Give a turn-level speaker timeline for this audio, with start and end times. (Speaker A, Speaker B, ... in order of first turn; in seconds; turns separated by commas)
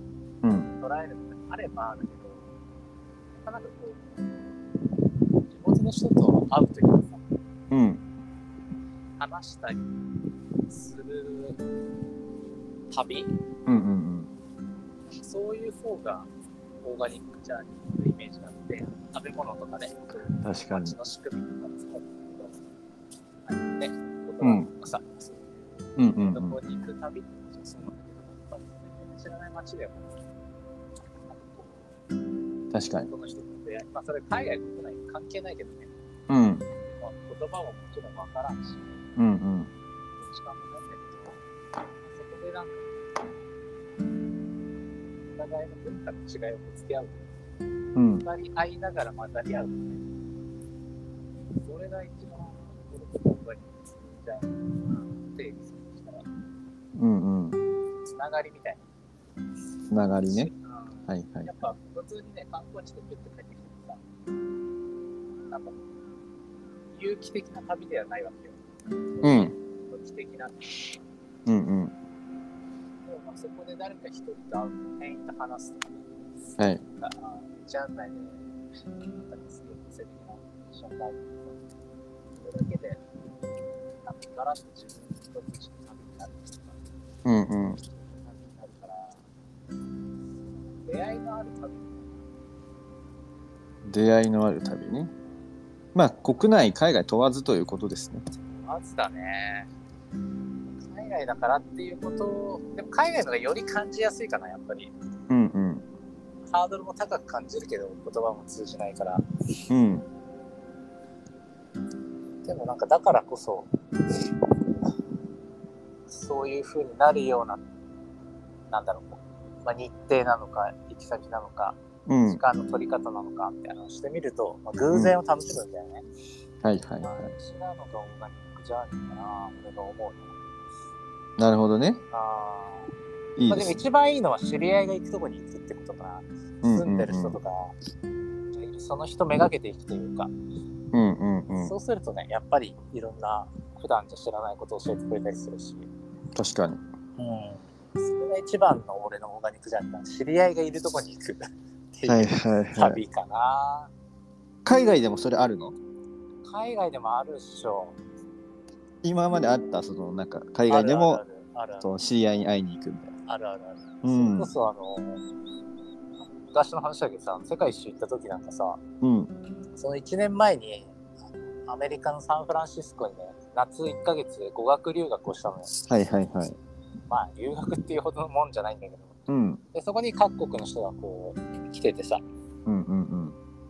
Speaker A: 0.4-0.7, Speaker B: 0.8-2.5, Speaker B: 3.4-4.5, Speaker B: 5.4-7.2, Speaker A: 7.7-8.0, Speaker B: 9.2-10.0, Speaker B: 10.7-11.6, Speaker B: 12.9-13.4, Speaker A: 13.7-14.3, Speaker B: 15.1-16.3, Speaker B: 16.8-22.6, Speaker A: 20.4-20.9, Speaker B: 23.4-30.2, Speaker A: 24.4-24.7, Speaker A: 26.0-26.6, Speaker B: 31.3-31.9, Speaker A: 32.7-33.1, Speaker B: 33.1-35.9, Speaker A: 36.3-36.6, Speaker B: 36.8-39.0, Speaker A: 39.2-39.7, Speaker B: 40.2-41.4, Speaker B: 42.0-43.3, Speaker B: 45.3-47.2, Speaker A: 47.9-48.2, Speaker B: 48.2-50.1, Speaker B: 51.5-56.2, Speaker A: 56.9-57.6, Speaker B: 58.0-58.8, Speaker A: 59.9-60.5, Speaker B: 60.3-64.0, Speaker A: 61.1-61.5, Speaker B: 65.5-65.8, Speaker B: 66.9-68.6, Speaker B: 69.1-71.0, Speaker A: 69.2-69.5, Speaker A: 71.5-71.9, Speaker B: 73.0-76.1, Speaker B: 77.0-78.5, Speaker B: 79.0-81.6, Speaker B: 82.3-83.0, Speaker B: 84.0-86.8, Speaker A: 87.2-87.8, Speaker B: 87.8-89.2, Speaker B: 90.8-92.2, Speaker A: 93.8-95.1, Speaker A: 95.9-98.2, Speaker B: 98.5-99.7, Speaker B: 100.8-104.9, Speaker A: 105.3-105.8, Speaker B: 106.5-109.2, Speaker A: 109.7-110.0, Speaker B: 112.4-114.2, Speaker B: 116.1-117.6, Speaker B: 118.7-126.0, Speaker A: 122.1-122.4, Speaker A: 126.6-127.3, Speaker B: 127.0-130.3, Speaker A: 131.4-132.0, Speaker B: 132.1-132.9, Speaker A: 133.4-133.7, Speaker B: 133.5-137.7, Speaker A: 136.6-137.4, Speaker B: 138.5-140.3, Speaker A: 140.9-141.7, Speaker B: 141.6-145.9, Speaker A: 146.3-146.8, Speaker B: 147.2-153.9, Speaker A: 152.1-153.0, Speaker A: 154.6-155.7, Speaker B: 156.4-158.0, Speaker A: 159.0-161.2, Speaker B: 160.7-161.9, Speaker A: 161.8-163.1, Speaker B: 163.3-165.2, Speaker A: 164.0-164.5, Speaker B: 166.4-168.8, Speaker A: 169.0-169.3, Speaker B: 169.8-175.7, Speaker A: 175.9-176.6, Speaker B: 177.1-179.1, Speaker A: 179.3-179.6, Speaker B: 179.7-182.2, Speaker A: 182.7-183.3